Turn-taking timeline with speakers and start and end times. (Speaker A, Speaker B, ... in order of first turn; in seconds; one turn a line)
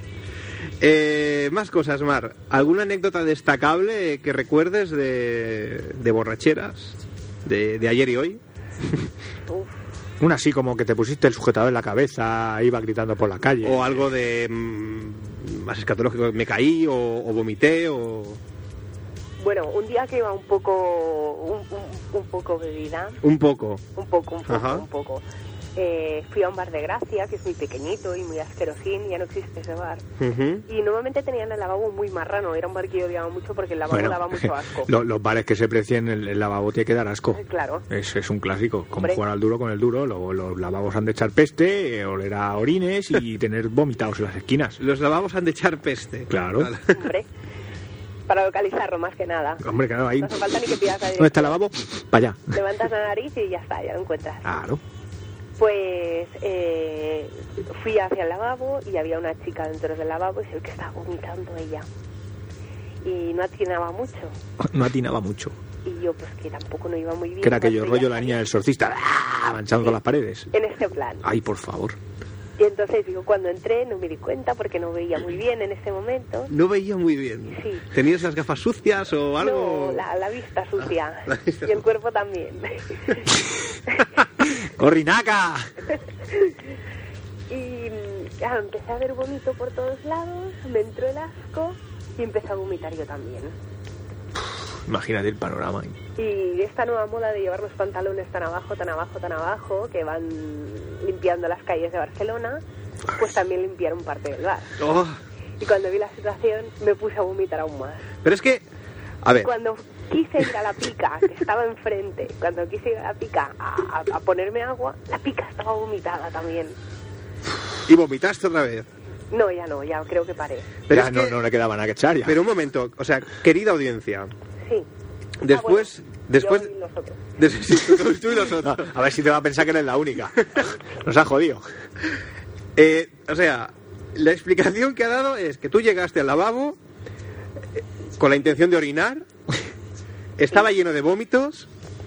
Speaker A: 0.8-9.1
Speaker B: 9.5-9.8
Speaker C: 10.2-14.1
Speaker A: 13.6-18.4
Speaker B: 19.4-23.2
Speaker A: 23.2-23.8
Speaker B: 23.9-25.2
Speaker A: 24.5-24.9
Speaker B: 25.8-30.0
Speaker A: 30.2-30.6
Speaker B: 30.7-34.9
Speaker C: 33.9-44.8
Speaker B: 37.3-37.9
Speaker B: 39.0-39.2
Speaker A: 44.8-47.1
Speaker C: 46.3-46.7
Speaker B: 46.9-47.3
Speaker B: 48.3-51.6
Speaker C: 49.6-50.6
Speaker C: 51.1-52.5
Speaker B: 52.5-54.5
Speaker C: 54.5-54.8
Speaker B: 55.6-61.9
Speaker B: 63.0-64.3
Speaker C: 64.6-65.5
Speaker B: 65.8-68.4
Speaker C: 67.4-70.5
Speaker B: 70.5-71.3
Speaker C: 71.2-72.0
Speaker B: 72.6-76.5
Speaker A: 76.5-80.0
Speaker B: 77.5-77.9
Speaker B: 79.4-83.4
Speaker A: 81.3-81.8
Speaker C: 84.4-85.7
Speaker B: 86.3-86.7
Speaker B: 87.5-93.5
Speaker C: 94.9-96.0
Speaker B: 96.2-102.6
Speaker B: 103.1-104.8
Speaker A: 104.8-105.2
Speaker B: 105.6-108.0
Speaker A: 108.2-108.6
Speaker A: 109.2-109.5
Speaker B: 109.4-116.8
Speaker A: 117.9-118.9
Speaker B: 119.3-120.7
Speaker A: 120.9-121.4
Speaker C: 120.9-122.4
Speaker A: 122.2-124.3
Speaker A: 125.4-126.7
Speaker B: 125.5-127.2
Speaker A: 127.4-128.9
Speaker C: 128.6-131.6
Speaker A: 132.8-136.8
Speaker A: 137.8-139.2
Speaker A: 140.4-141.7